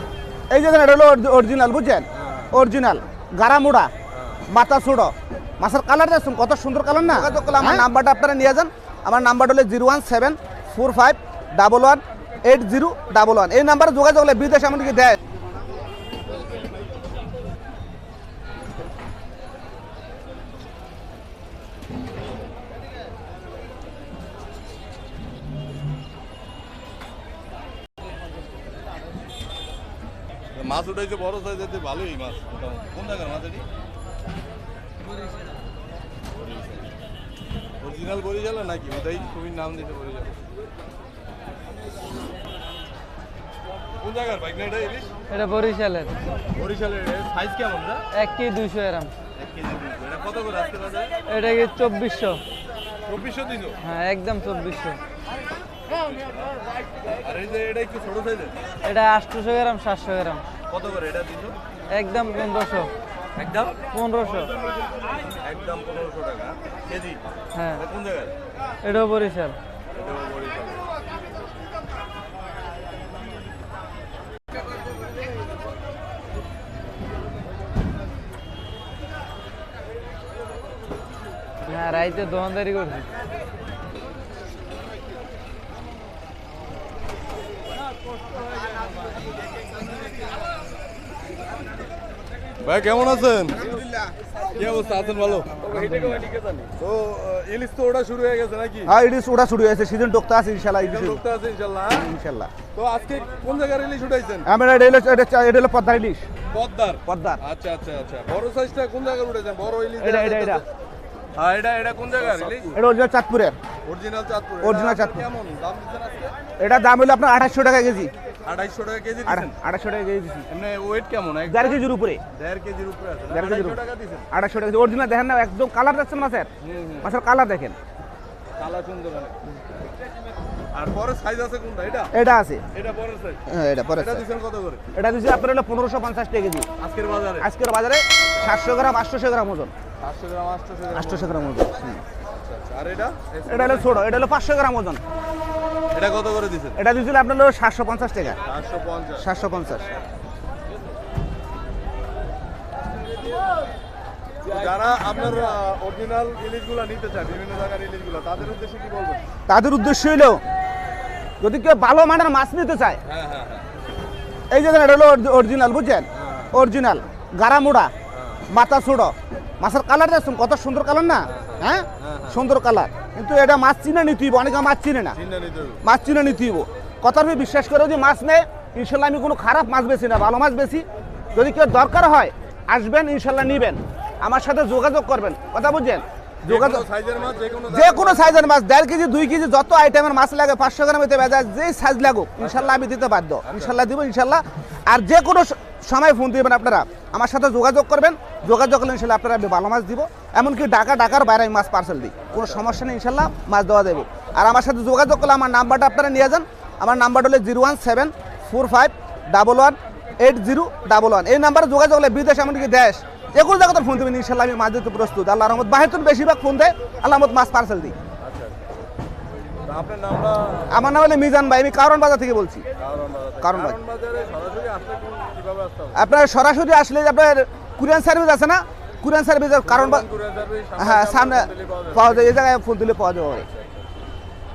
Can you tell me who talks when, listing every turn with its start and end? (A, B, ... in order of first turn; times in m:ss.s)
0:00.5-0:03.9 A
0:02.2-0:02.5 B
0:04.1-0:04.4 B
0:04.5-0:15.2 A
0:30.5-0:33.7 B
0:36.4-0:36.8 B
0:37.8-0:40.4 B
0:44.0-0:45.1 B
0:45.3-0:46.1 C
0:46.5-0:48.0 B
0:48.1-0:49.1 C
0:49.4-0:51.1 B
0:51.3-0:52.4 C
0:53.1-0:53.8 B
0:53.8-0:55.0 C
0:56.0-0:56.4 B
0:57.2-0:58.6 B
0:58.8-1:00.4 C
1:00.7-1:01.6 B
1:01.9-1:02.9 C
1:03.4-1:03.8 B
1:03.9-1:04.5 C
1:05.4-1:08.3 B
1:07.5-1:07.8 C
1:08.8-1:09.6 C
1:09.9-1:10.8 B
1:21.6-1:23.1 C
1:32.6-1:33.8 B
1:34.5-1:38.9 B
1:35.7-1:36.2 A
1:38.9-1:41.2 A
1:40.8-1:42.1 B
1:41.9-1:42.5 A
1:42.7-1:44.5 B
1:44.5-1:46.3 A
1:46.5-1:50.6 B
1:47.1-1:47.4 A
1:50.0-1:50.6 A
1:51.4-1:52.8 B
1:52.7-1:53.6 A
1:53.8-1:56.4 B
1:54.6-1:55.2 A
1:56.6-1:58.1 A
1:58.4-1:59.6 B
1:59.3-2:00.5 A
2:00.5-2:04.3 B
2:01.5-2:02.2 A
2:03.3-2:03.8 A
2:04.3-2:06.5 A
2:06.6-2:07.1 B
2:07.0-2:07.8 A
2:08.6-2:09.4 B
2:10.7-2:12.1 B
2:12.1-2:12.6 A
2:12.7-2:13.4 B
2:13.5-2:14.2 A
2:14.0-2:14.8 B
2:15.0-2:16.7 A
2:16.8-2:17.5 B
2:17.4-2:19.7 A
2:20.0-2:21.4 B
2:20.9-2:22.0 A
2:22.3-2:24.1 B
2:23.5-2:25.0 A
2:25.9-2:26.8 B
2:26.8-2:28.4 A
2:28.4-2:29.3 B
2:29.2-2:29.9 A
2:34.4-2:39.2 B
2:39.5-2:40.4 A
2:41.4-2:43.0 A
2:43.0-2:43.7 B
2:44.5-2:47.9 A
2:46.1-2:46.5 B
2:48.1-2:48.4 B
2:48.5-2:55.2 A
2:51.3-2:52.4 B
2:55.1-2:55.8 B
2:55.8-3:06.8 A
3:06.4-3:08.5 B
3:07.7-3:38.0 A
3:12.4-3:12.8 B
3:13.4-3:13.8 B
3:22.4-3:22.6 B
3:38.2-3:38.6 B
3:39.6-3:40.9 B
3:40.7-3:42.6 A
3:42.8-3:46.1 B
3:43.4-3:43.8 A
3:46.0-3:50.0 A
3:49.6-3:52.4 B
3:50.8-3:53.5 A